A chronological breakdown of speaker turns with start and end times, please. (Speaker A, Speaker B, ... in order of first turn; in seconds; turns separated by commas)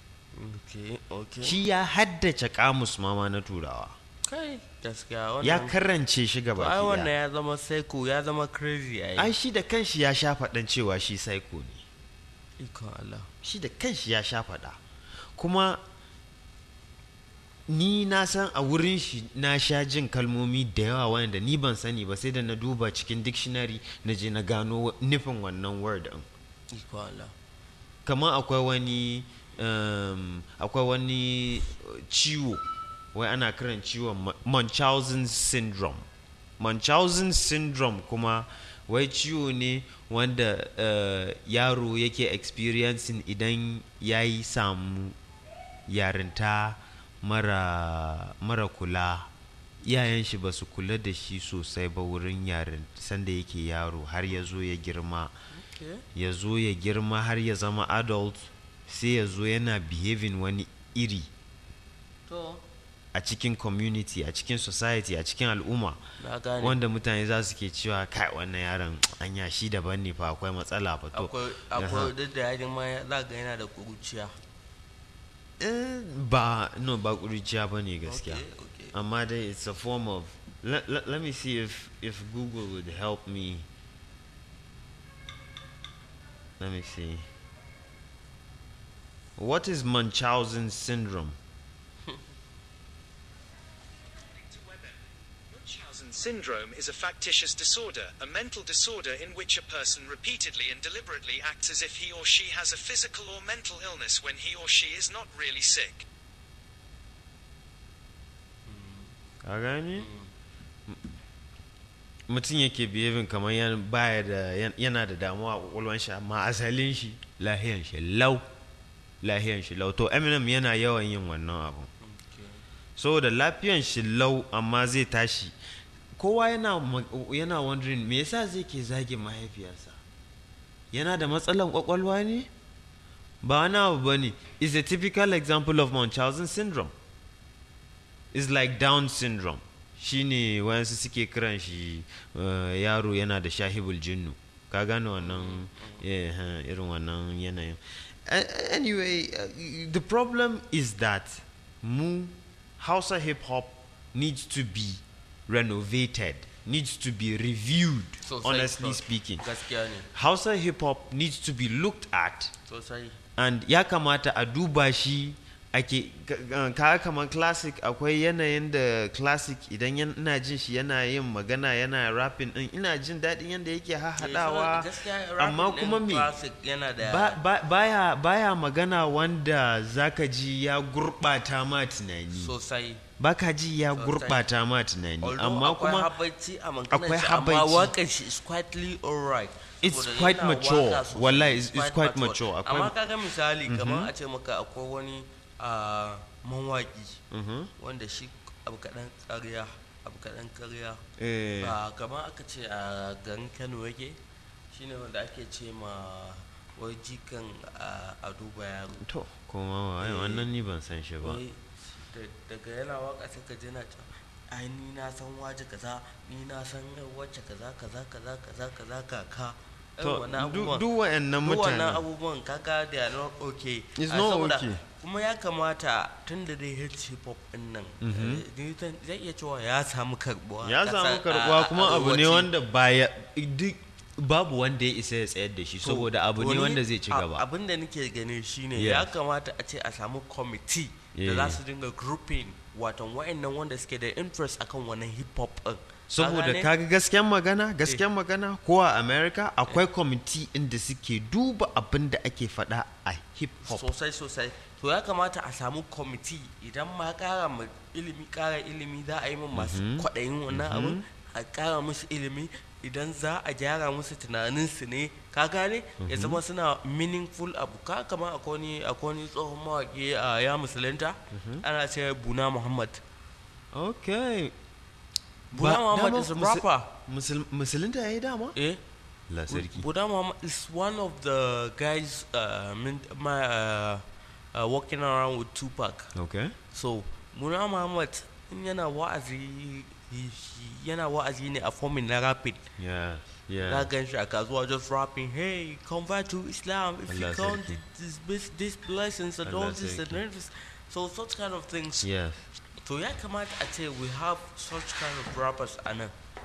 Speaker A: 0.3-1.6, Speaker B: 1.4-4.0, Speaker A: 4.2-5.8, Speaker B: 5.4-7.1, Speaker A: 6.6-9.3, Speaker B: 9.2-11.8, Speaker A: 12.6-13.3, Speaker B: 13.4-14.8, Speaker B: 15.4-15.8, Speaker B: 17.7-26.3, Speaker A: 26.7-27.3, Speaker B: 28.1-36.1, Speaker B: 36.6-45.2, Speaker B: 45.9-49.3, Speaker B: 49.8-55.3, Speaker A: 55.5-56.0, Speaker B: 56.1-61.3, Speaker A: 62.3-62.6, Speaker B: 63.1-66.0, Speaker A: 66.2-66.8, Speaker B: 66.6-72.1, Speaker A: 71.1-74.3, Speaker B: 75.6-78.4, Speaker A: 78.0-79.0, Speaker B: 78.9-83.7, Speaker B: 86.6-87.3, Speaker B: 89.4-91.4, Speaker C: 94.4-95.0, Speaker C: 95.5-106.1, Speaker A: 108.7-109.1, Speaker B: 109.4-110.1, Speaker A: 110.0-110.3, Speaker B: 112.3-118.4, Speaker B: 119.2-121.9, Speaker A: 122.0-122.6, Speaker B: 123.0-125.5, Speaker B: 126.2-130.0, Speaker B: 130.9-132.5, Speaker B: 133.4-136.9, Speaker B: 138.3-159.4, Speaker A: 145.2-146.0, Speaker A: 158.2-160.1, Speaker B: 160.1-162.5, Speaker A: 162.7-163.2, Speaker B: 163.4-176.3, Speaker A: 174.2-177.4, Speaker B: 177.0-182.5, Speaker A: 182.3-183.0, Speaker B: 183.2-186.1, Speaker A: 183.9-184.4, Speaker A: 185.2-197.2, Speaker B: 186.9-187.9, Speaker B: 189.8-192.9, Speaker B: 193.7-194.1, Speaker B: 197.3-197.7, Speaker A: 197.8-201.0, Speaker B: 201.2-201.8, Speaker A: 201.6-204.2, Speaker A: 204.7-209.0, Speaker B: 209.0-211.4, Speaker A: 210.0-210.5, Speaker A: 211.2-220.8, Speaker B: 220.0-222.0, Speaker A: 221.4-232.5, Speaker B: 224.0-224.8, Speaker B: 228.0-228.4, Speaker B: 230.6-237.4, Speaker A: 235.8-246.7, Speaker B: 238.8-239.1, Speaker B: 241.2-241.6, Speaker B: 246.1-253.9, Speaker A: 253.7-273.0, Speaker B: 259.5-261.0, Speaker B: 266.0-266.4, Speaker B: 271.3-271.6, Speaker B: 273.7-274.5, Speaker A: 275.5-276.9, Speaker B: 275.5-278.6, Speaker A: 278.6-278.8, Speaker B: 279.3-279.9, Speaker A: 279.5-286.1, Speaker B: 286.1-286.6, Speaker A: 286.7-292.6, Speaker B: 292.8-293.9, Speaker A: 293.6-302.1, Speaker B: 297.1-297.8, Speaker B: 299.4-300.2, Speaker B: 302.0-302.5, Speaker A: 302.8-306.1